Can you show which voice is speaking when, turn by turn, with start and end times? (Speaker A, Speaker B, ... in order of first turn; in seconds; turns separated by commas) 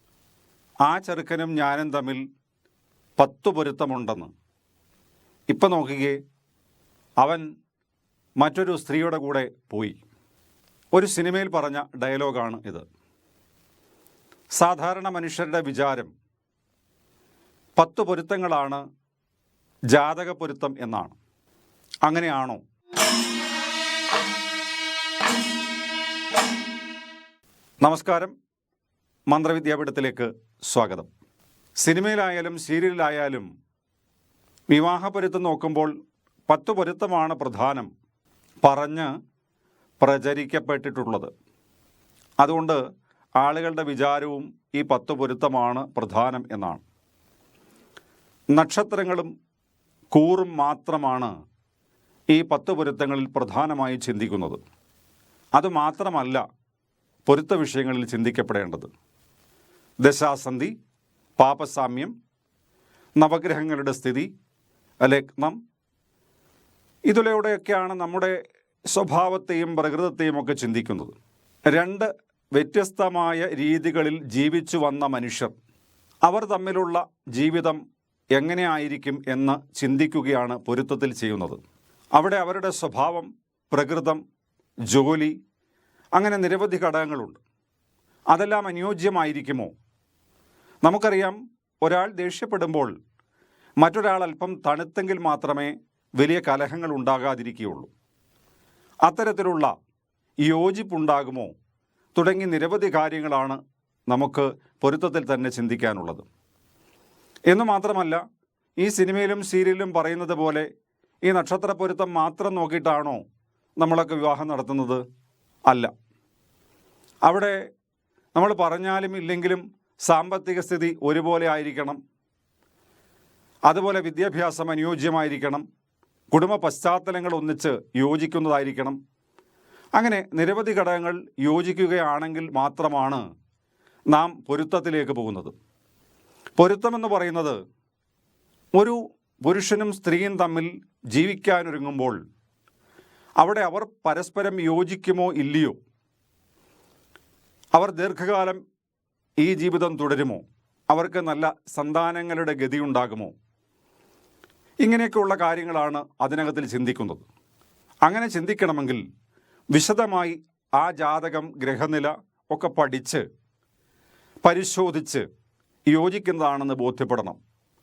Speaker A: 0.8-2.2, Speaker A: 3.2-4.3, Speaker A: 5.5-6.2, Speaker A: 7.2-7.5, Speaker A: 8.4-10.0, Speaker A: 10.9-12.8, Speaker A: 14.6-16.1, Speaker A: 17.8-18.8, Speaker A: 19.9-21.2, Speaker A: 22.0-22.6, Speaker A: 27.8-28.3, Speaker A: 29.3-31.1, Speaker A: 31.8-33.5, Speaker A: 34.7-35.9, Speaker A: 36.5-37.9, Speaker A: 38.6-39.1, Speaker A: 40.0-41.3, Speaker A: 42.4-42.8, Speaker A: 43.4-46.8, Speaker A: 48.5-49.3, Speaker A: 50.1-51.3, Speaker A: 52.3-54.6, Speaker A: 55.5-56.4, Speaker A: 57.3-58.9, Speaker A: 60.0-60.7, Speaker A: 61.4-62.1, Speaker A: 63.2-64.3, Speaker A: 65.0-65.6, Speaker A: 67.1-68.4, Speaker A: 68.9-71.1, Speaker A: 71.7-75.5, Speaker A: 76.2-77.8, Speaker A: 78.3-81.6, Speaker A: 82.2-84.2, Speaker A: 84.9-85.3, Speaker A: 86.2-87.4, Speaker A: 88.3-89.7, Speaker A: 90.8-92.9, Speaker A: 93.8-97.9, Speaker A: 99.0-99.7, Speaker A: 100.4-101.5, Speaker A: 102.1-106.2, Speaker A: 107.5-108.2, Speaker A: 108.8-110.7, Speaker A: 111.2-113.2, Speaker A: 113.8-115.0, Speaker A: 117.3-117.6, Speaker A: 118.3-122.0, Speaker A: 123.7-125.6, Speaker A: 126.3-129.0, Speaker A: 129.9-133.2, Speaker A: 134.1-135.5, Speaker A: 136.6-137.6, Speaker A: 138.8-142.2, Speaker A: 143.4-145.8, Speaker A: 147.7-148.6, Speaker A: 149.4-153.3, Speaker A: 154.8-157.2, Speaker A: 158.1-159.0, Speaker A: 159.7-163.2, Speaker A: 164.4-165.2, Speaker A: 165.9-167.4